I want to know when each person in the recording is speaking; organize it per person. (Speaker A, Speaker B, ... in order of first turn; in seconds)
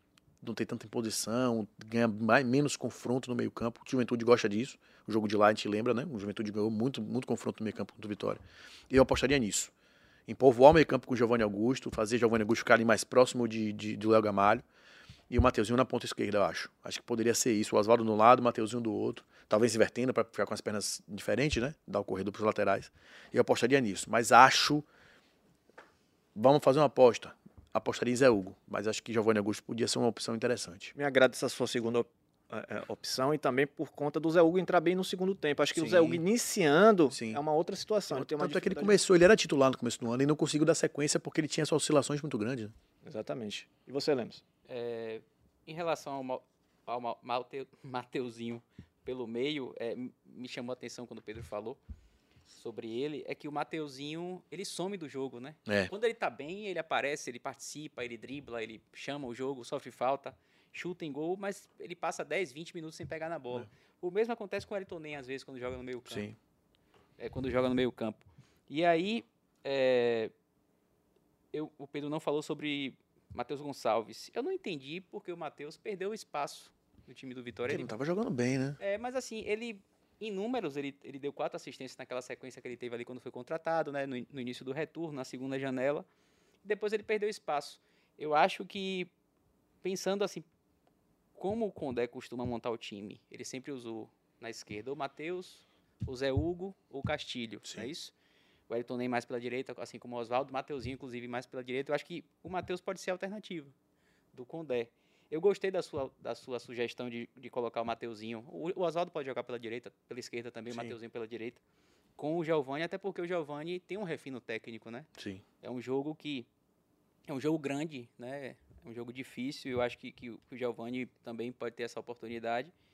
Speaker A: 0.4-9.7, 10.3-14.6, 15.3-24.9, 26.3-30.9, 35.7-36.2, 37.1-37.4, 38.1-42.7, 66.1-66.3, 77.7-78.8, 115.2-115.4
Speaker B: 30.9-39.0, 43.0-44.4
Speaker C: 44.7-51.8, 52.5-66.3, 67.2-70.3, 71.5-77.9, 78.8-86.0, 86.6-89.1, 89.8-90.5, 91.4-98.1, 98.7-103.7, 104.3-111.6, 112.2-115.1, 115.6-116.5, 117.3-122.7